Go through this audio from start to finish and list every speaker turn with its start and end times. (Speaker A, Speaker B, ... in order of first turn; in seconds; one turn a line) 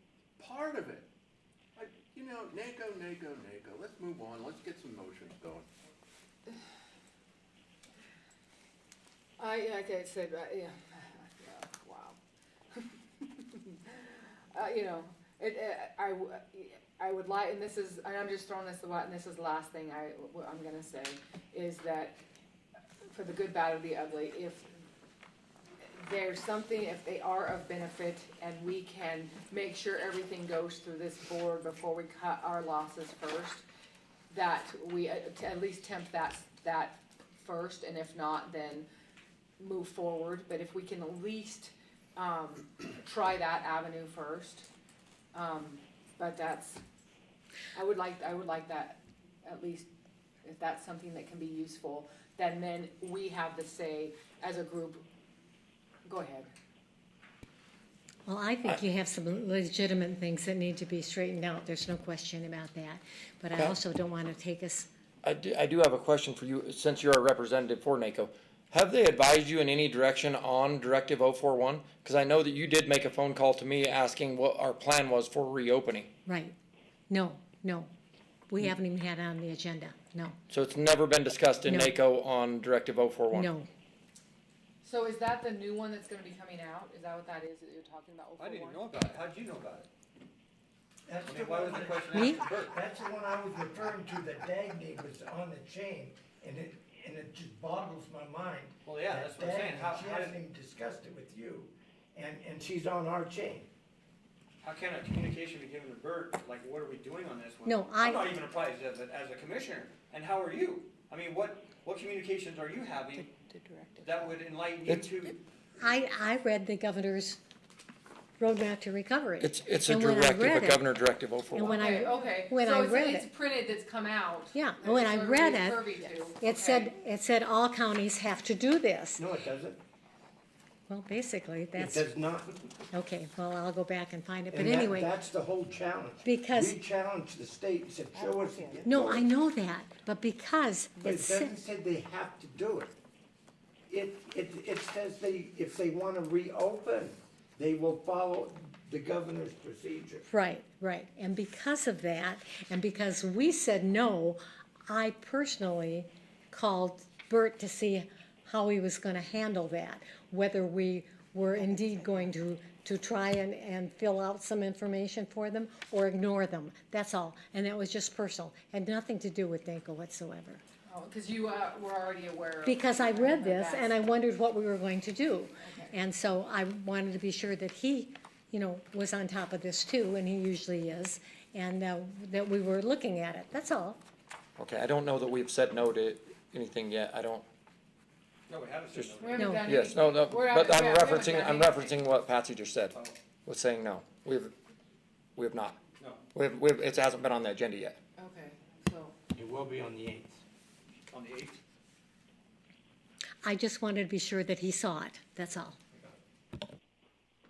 Speaker A: 0.4-1.1
Speaker A: 1.8-5.7
Speaker B: 9.4-12.2
Speaker B: 12.7-22.2
Speaker B: 23.1-24.7
Speaker B: 25.8-33.6
Speaker B: 34.3-38.9
Speaker B: 39.6-44.7
Speaker B: 45.3-46.8
Speaker B: 47.7-49.9
Speaker B: 50.4-55.1
Speaker B: 56.0-56.5
Speaker C: 58.3-64.9
Speaker D: 65.2-76.1
Speaker C: 76.3-76.5
Speaker C: 77.1-77.9
Speaker C: 78.5-80.4
Speaker D: 80.5-83.5
Speaker C: 81.6-82.0
Speaker C: 83.3-83.7
Speaker B: 84.8-89.1
Speaker E: 88.4-89.9
Speaker F: 91.1-103.7
Speaker E: 91.2-92.8
Speaker C: 92.1-92.4
Speaker E: 98.8-100.4
Speaker E: 104.6-113.4
Speaker C: 107.7-108.3
Speaker E: 114.0-115.4
Speaker D: 114.9-115.2
Speaker C: 115.8-117.4
Speaker C: 118.4-120.8
Speaker D: 119.4-121.8
Speaker C: 121.5-123.3
Speaker B: 121.6-126.9
Speaker C: 124.5-129.2
Speaker F: 129.2-129.8
Speaker C: 130.9-132.1
Speaker F: 131.8-132.8
Speaker C: 132.9-135.1
Speaker F: 134.5-139.3
Speaker C: 136.2-136.8
Speaker C: 138.8-141.5
Speaker F: 141.0-143.0
Speaker F: 143.9-150.3
Speaker C: 150.3-170.6
Speaker B: 161.6-162.2
Speaker B: 170.9-174.0
Speaker C: 172.7-184.0
Speaker B: 175.6-175.9
Speaker D: 184.6-187.5
Speaker E: 188.5-189.5
Speaker D: 188.9-194.5
Speaker B: 189.2-192.1
Speaker C: 189.3-189.7
Speaker E: 192.9-193.2
Speaker D: 195.4-195.8
Speaker E: 196.0-196.3
Speaker D: 196.3-198.0
Speaker B: 198.2-199.2
Speaker F: 199.3-200.4
Speaker E: 201.1-201.6
Speaker C: 203.4-205.8